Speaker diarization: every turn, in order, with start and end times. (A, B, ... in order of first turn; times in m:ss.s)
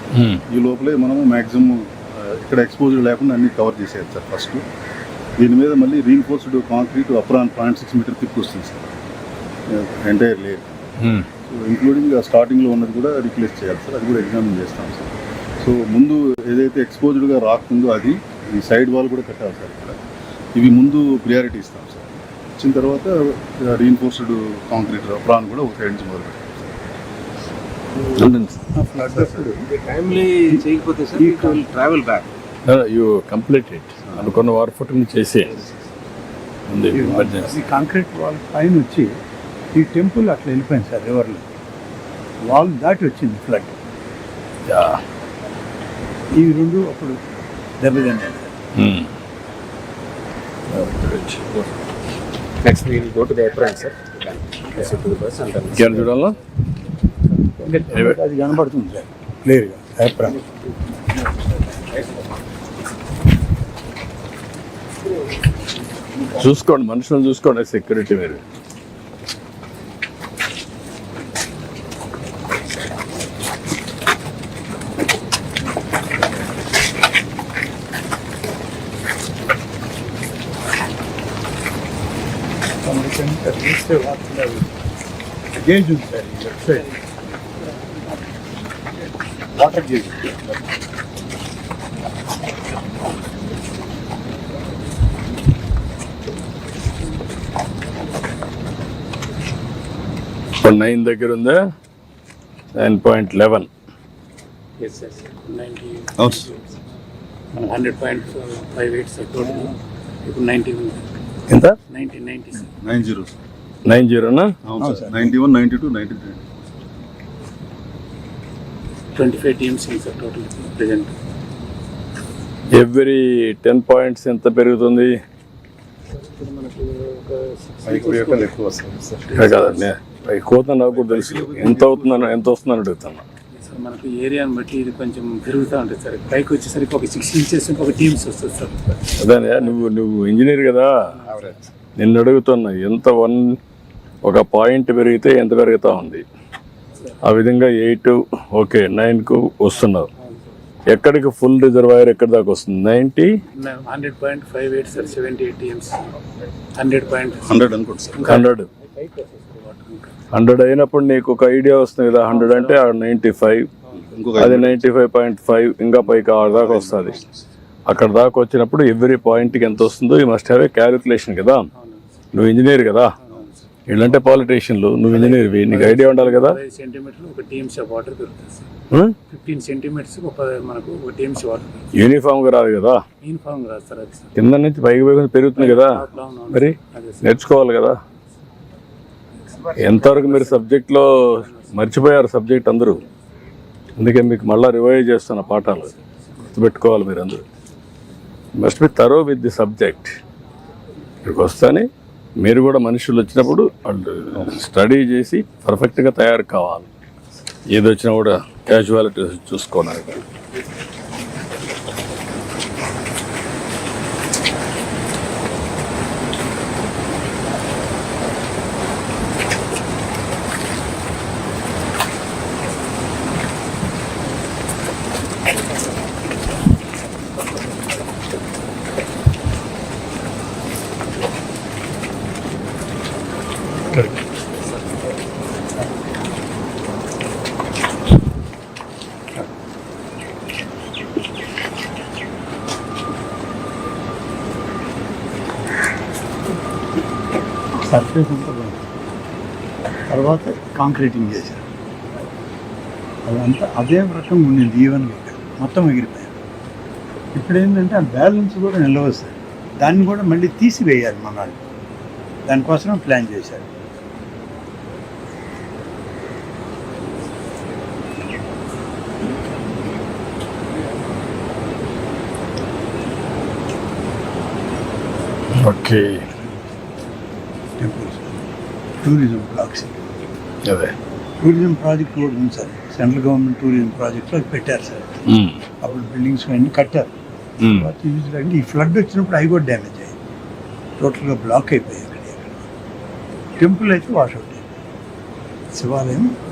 0:00.1-0:00.4 A
0:00.5-0:04.6 B
0:05.4-0:09.0 B
0:09.7-0:10.8 B
0:11.0-0:11.3 A
0:11.5-0:20.0 B
0:20.5-0:26.9 B
0:28.1-0:28.6 A
0:28.7-0:29.7 C
0:29.7-0:32.3 D
0:30.4-0:31.6 C
0:32.6-0:35.7 A
0:34.1-0:34.3 B
0:36.7-0:37.5 A
0:36.9-0:39.1 C
0:39.7-0:41.4 C
0:42.4-0:43.8 C
0:44.7-0:45.0 A
0:46.3-0:47.2 C
0:47.8-0:48.5 C
0:48.8-0:49.1 A
0:50.7-0:51.6 A
0:52.6-0:56.1 D
0:55.7-0:56.4 A
0:57.6-1:00.4 C
1:06.3-1:08.4 A
1:22.8-1:24.7 C
1:25.6-1:26.9 C
1:29.5-1:30.3 C
1:40.6-1:41.6 A
1:42.7-1:43.7 A
1:44.8-1:46.8 E
1:46.2-1:46.5 B
1:47.5-1:51.0 E
1:51.5-1:51.8 A
1:51.9-1:52.7 E
1:52.6-1:53.4 B
1:53.8-1:54.5 A
1:54.6-1:56.5 B
1:54.8-1:55.3 C
1:59.1-2:01.1 E
2:02.7-2:05.1 A
2:06.3-2:08.5 E
2:07.8-2:09.9 B
2:09.3-2:09.8 E
2:09.3-2:13.2 A
2:10.9-2:12.5 B
2:13.5-2:19.0 E
2:19.2-2:20.9 A
2:21.3-2:21.6 D
2:22.0-2:23.5 A
2:24.2-2:26.2 A
2:27.2-2:30.1 A
2:30.9-2:33.3 A
2:33.5-2:36.0 E
2:36.7-2:37.6 E
2:37.4-2:38.3 B
2:38.2-2:40.2 E
2:38.2-2:38.7 A
2:40.3-2:43.7 A
2:42.3-2:42.8 E
2:44.0-2:44.8 B
2:44.4-2:47.2 A
2:46.2-2:47.2 B
2:47.9-2:51.7 A
2:52.3-2:53.1 A
2:53.9-2:56.6 A
2:55.2-2:58.7 E
2:58.9-2:59.2 A
2:59.3-3:01.9 E
3:02.0-3:03.0 A
3:03.2-3:04.3 E
3:04.4-3:08.0 A
3:05.6-3:07.3 E
3:09.5-3:10.7 E
3:09.7-3:13.0 A
3:11.4-3:11.8 E
3:14.0-3:15.9 A
3:16.4-3:17.4 A
3:18.6-3:20.2 A
3:21.2-3:21.9 A
3:22.4-3:26.9 A
3:27.7-3:30.2 A
3:53.9-3:54.2 A
4:07.8-4:08.8 C
4:10.1-4:11.6 C
4:13.2-4:16.3 C
4:17.3-4:21.6 C
4:22.4-4:23.7 C
4:35.5-4:36.2 A
4:37.8-4:38.4 C
4:39.0-4:39.9 C
4:40.6-4:40.9 A
4:41.4-4:45.1 C
4:45.3-4:45.6 A
4:45.8-4:47.1 C
4:47.6-4:47.9 A
4:47.7-4:50.1 C
4:51.0-4:52.6 C
4:53.6-4:54.6 C
4:55.7-4:56.3 C